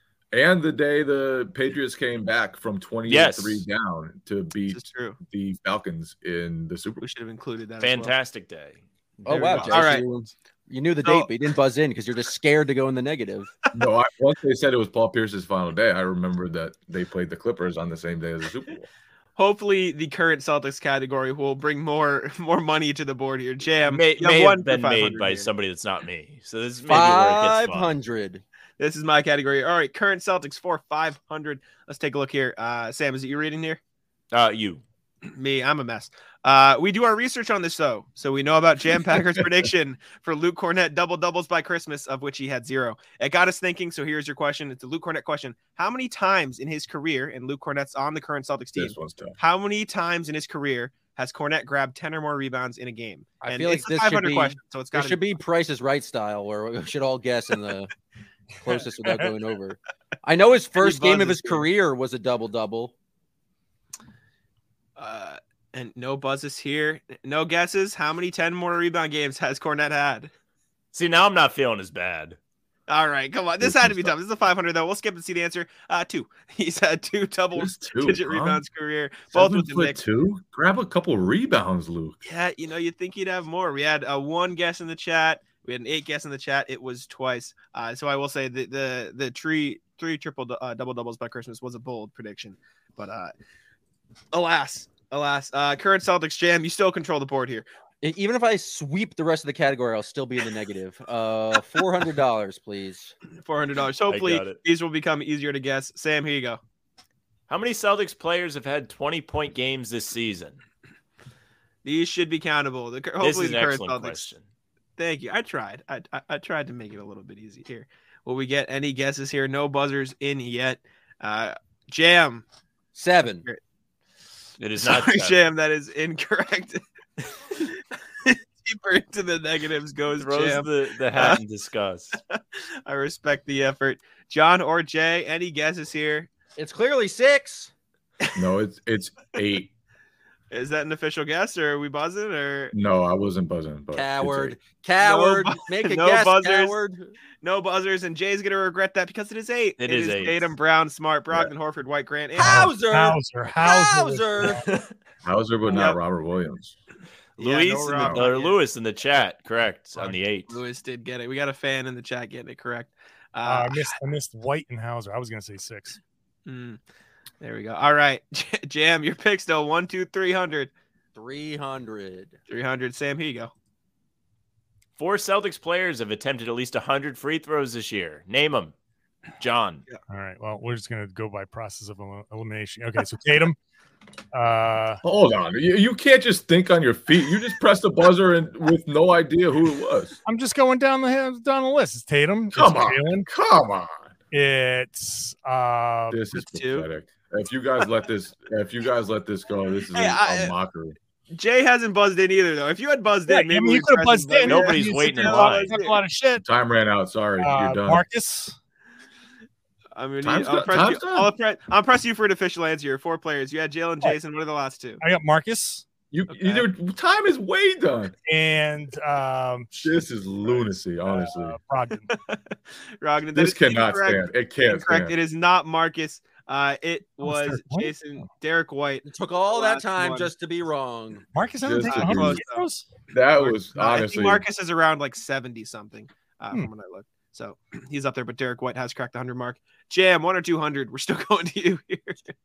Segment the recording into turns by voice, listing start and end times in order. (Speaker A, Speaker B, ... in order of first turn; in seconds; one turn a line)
Speaker A: 0.3-7.0
Speaker B: 3.1-3.7
Speaker C: 4.7-5.2
Speaker C: 7.0-8.1
Speaker B: 7.8-9.9
Speaker D: 9.3-13.5
Speaker C: 9.3-10.1
Speaker C: 11.0-11.3
Speaker A: 13.7-18.9
Speaker C: 19.4-25.5
Speaker B: 23.9-27.9
Speaker D: 26.9-28.4
Speaker C: 28.8-33.8
Speaker B: 34.3-34.8
Speaker C: 35.3-55.2
Speaker A: 48.8-49.4
Speaker D: 53.4-57.9
Speaker D: 58.6-62.9
Speaker C: 60.8-61.7
Speaker C: 65.0-70.3
Speaker B: 70.9-72.4
Speaker C: 72.9-80.0
Speaker A: 73.6-74.2
Speaker A: 77.6-78.6
Speaker A: 79.3-82.2
Speaker C: 82.2-93.3
Speaker C: 94.3-97.7
Speaker D: 98.0-103.1
Speaker C: 103.4-106.6
Speaker B: 104.1-104.6
Speaker B: 107.5-110.6
Speaker C: 111.8-114.3
Speaker B: 113.2-114.4
Speaker C: 115.0-122.4
Speaker D: 122.9-123.5
Speaker B: 124.6-125.5
Speaker C: 124.8-126.8
Speaker C: 127.5-131.4
Speaker B: 130.2-132.2
Speaker C: 132.3-136.3
Speaker D: 136.6-137.7
Speaker A: 138.3-139.7
Speaker C: 140.5-142.7
Speaker A: 142.7-144.6
Speaker D: 143.9-147.1
Speaker C: 145.0-146.8
Speaker C: 147.4-152.7
Speaker B: 149.8-150.5
Speaker D: 152.4-154.6
Speaker E: 152.4-154.7
Speaker B: 154.6-154.9
Speaker A: 155.2-156.8
Speaker C: 155.7-156.0
Speaker C: 157.4-158.6
Speaker B: 157.4-160.6
Speaker A: 157.9-158.3
Speaker C: 160.1-164.0
Speaker E: 163.4-166.0
Speaker C: 166.5-166.8
Speaker C: 167.4-170.7
Speaker D: 171.2-172.4
Speaker C: 172.5-173.5
Speaker B: 175.0-178.7
Speaker B: 179.4-179.9
Speaker E: 180.1-183.6
Speaker E: 184.3-185.0
Speaker A: 185.0-190.2
Speaker E: 190.3-193.3
Speaker A: 192.5-194.1
Speaker E: 194.3-196.2
Speaker A: 196.1-201.0
Speaker C: 196.3-196.9
Speaker C: 199.9-200.5
Speaker C: 201.3-206.0
Speaker E: 203.3-206.4
Speaker B: 204.5-205.8
Speaker A: 206.4-208.1
Speaker E: 207.4-208.6
Speaker C: 210.0-215.0
Speaker A: 210.2-211.3
Speaker E: 215.0-215.9
Speaker A: 216.1-218.2
Speaker C: 216.3-216.7
Speaker E: 218.3-222.1
Speaker A: 219.8-221.6
Speaker C: 222.1-230.3
Speaker A: 223.3-225.2
Speaker E: 227.2-227.9
Speaker D: 229.0-231.3
Speaker E: 231.3-233.0
Speaker A: 231.6-232.4
Speaker C: 231.8-232.7
Speaker A: 233.1-234.4
Speaker C: 233.4-242.3